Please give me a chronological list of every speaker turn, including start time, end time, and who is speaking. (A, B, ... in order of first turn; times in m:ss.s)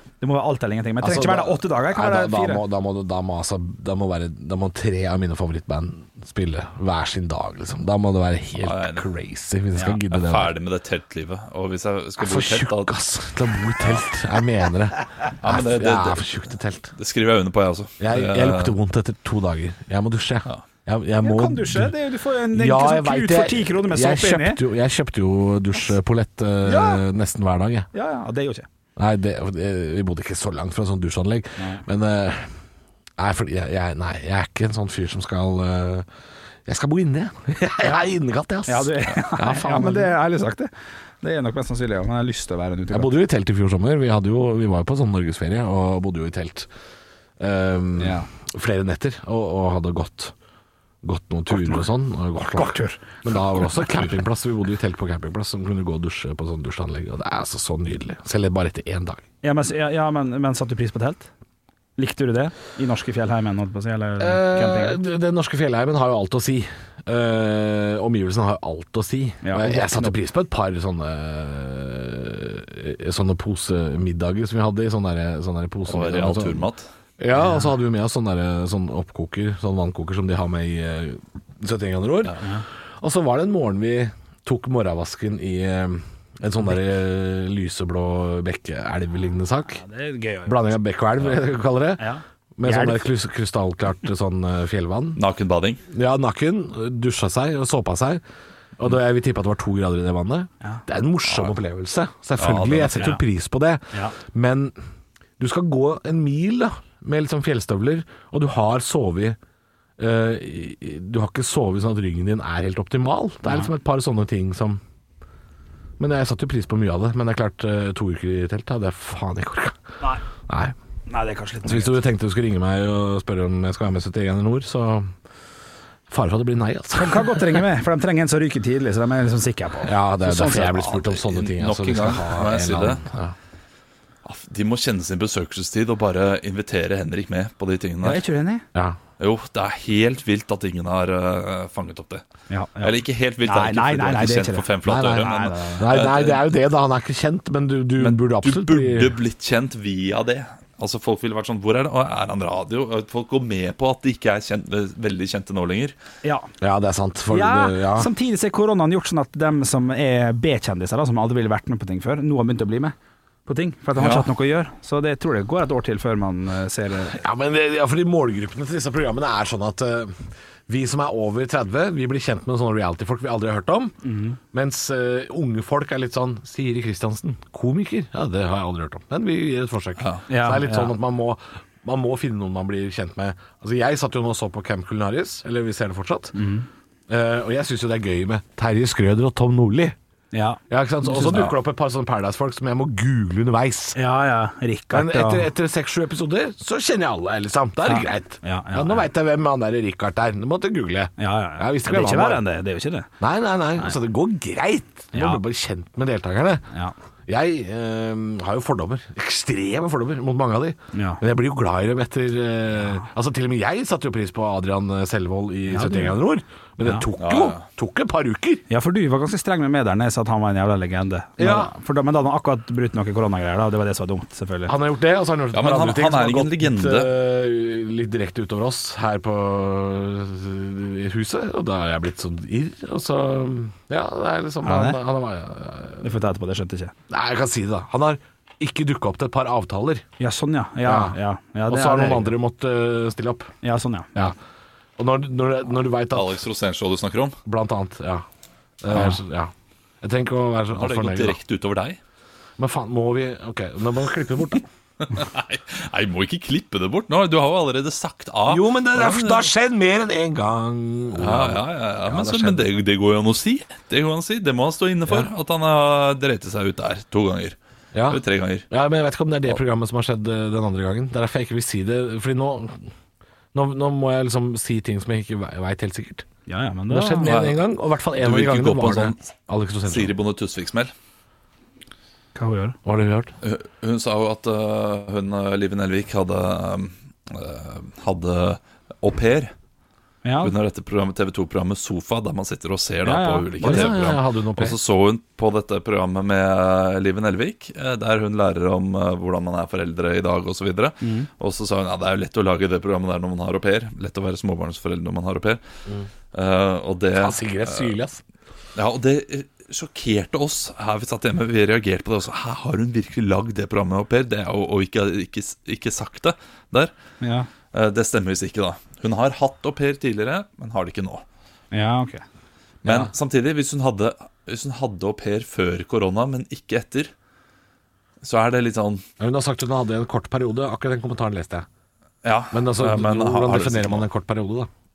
0:00.2-0:02.6 A
0:01.0-0:10.5 B
0:08.6-0:09.1 C
0:10.1-0:13.0 C
0:12.2-0:16.9 B
0:13.8-0:14.1 C
0:15.4-0:16.4 C
0:17.0-0:18.8 C
0:18.0-0:21.9 B
0:21.2-0:24.6 A
0:22.5-0:27.9 B
0:26.6-0:27.0 A
0:27.9-0:28.7 A
0:29.0-0:32.6 B
0:31.6-0:31.8 A
0:33.2-0:36.1 B
0:36.7-0:40.2 B
0:37.8-0:38.1 A
0:38.7-0:40.7 A
0:41.2-0:43.1 A
0:42.9-0:46.7 B
0:47.4-0:50.3 B
0:48.0-0:48.3 A
0:51.0-0:59.2 B
0:51.5-0:51.9 A
0:52.5-0:54.0 A
0:59.4-1:01.3 A
1:02.0-1:05.0 A
1:04.2-1:16.7 B
1:09.4-1:10.2 A
1:15.9-1:16.8 C
1:17.2-1:22.4 B
1:17.4-1:17.7 A
1:22.4-1:22.7 A
1:23.0-1:29.8 B
1:29.7-1:30.6 A
1:30.5-1:35.2 B
1:32.0-1:33.1 A
1:35.2-1:35.8 C
1:35.9-1:38.2 B
1:38.8-1:44.8 B
1:42.4-1:43.1 C
1:45.4-1:49.4 B
1:50.0-1:54.8 B
1:56.0-1:59.8 B
2:00.5-2:00.7 B
2:01.1-2:02.0 A
2:01.6-2:05.1 B
2:06.1-2:07.6 B
2:06.9-2:10.8 A
2:09.8-2:13.4 B
2:10.4-2:13.0 C
2:14.2-2:18.2 C
2:18.0-2:18.7 A
2:19.2-2:22.2 C
2:22.5-2:25.9 A
2:22.8-2:26.4 C
2:24.8-2:29.2 B
2:28.0-2:36.0 C
2:36.2-2:36.5 A
2:36.6-2:38.1 B
2:37.3-2:43.0 A
2:43.5-2:47.2 A
2:44.0-2:44.3 C
2:47.1-2:54.0 B
2:54.0-2:54.4 A
2:54.5-3:06.4 B
3:00.3-3:00.9 A
3:06.4-3:06.7 A
3:07.1-3:10.0 B
3:10.3-3:11.5 A
3:10.7-3:14.0 B
3:14.0-3:15.5 A
3:14.9-3:22.4 B
3:17.8-3:19.1 A
3:21.2-3:23.1 A
3:23.2-3:26.7 B
3:25.1-3:25.4 A
3:27.3-3:38.6 B
3:30.9-3:31.2 A
3:32.8-3:33.0 A
3:35.7-3:36.2 A
3:37.2-3:37.6 C
3:38.7-3:44.7 A
3:41.4-3:41.7 B
3:44.7-3:56.1 B
3:45.5-3:47.1 C
3:54.6-3:55.0 A
3:56.0-3:56.9 A
3:57.1-4:00.0 B
4:00.2-4:02.4 A
4:00.8-4:01.2 B
4:01.7-4:03.5 B
4:03.6-4:04.3 A
4:05.0-4:06.4 B
4:06.1-4:07.4 C
4:07.4-4:08.2 B
4:08.8-4:11.4 B
4:10.8-4:12.0 C
4:12.6-4:14.6 B
4:15.0-4:19.5 C
4:18.5-4:22.7 B
4:21.2-4:27.6 C
4:27.9-4:32.9 B
4:28.1-4:28.7 C
4:33.5-4:36.3 B
4:36.5-4:37.4 A
4:36.9-4:40.2 B
4:37.2-4:37.6 C
4:38.2-4:39.3 C
4:39.9-4:40.9 C
4:42.4-4:42.8 A
4:42.8-4:43.3 B
4:43.4-4:49.5 C
4:50.2-4:50.5 A
4:50.4-5:05.6 C
4:53.0-4:54.0 A
4:53.6-4:54.8 B
5:01.0-5:01.3 A
5:06.3-5:08.0 C
5:07.2-5:08.2 B
5:08.8-5:16.9 C
5:17.2-5:17.5 A
5:17.7-5:21.2 C
5:21.7-5:22.2 A
5:22.8-5:23.1 B
5:22.8-5:27.1 C
5:28.2-5:29.0 C
5:29.2-5:31.7 B
5:32.2-5:34.1 C
5:32.5-5:34.7 B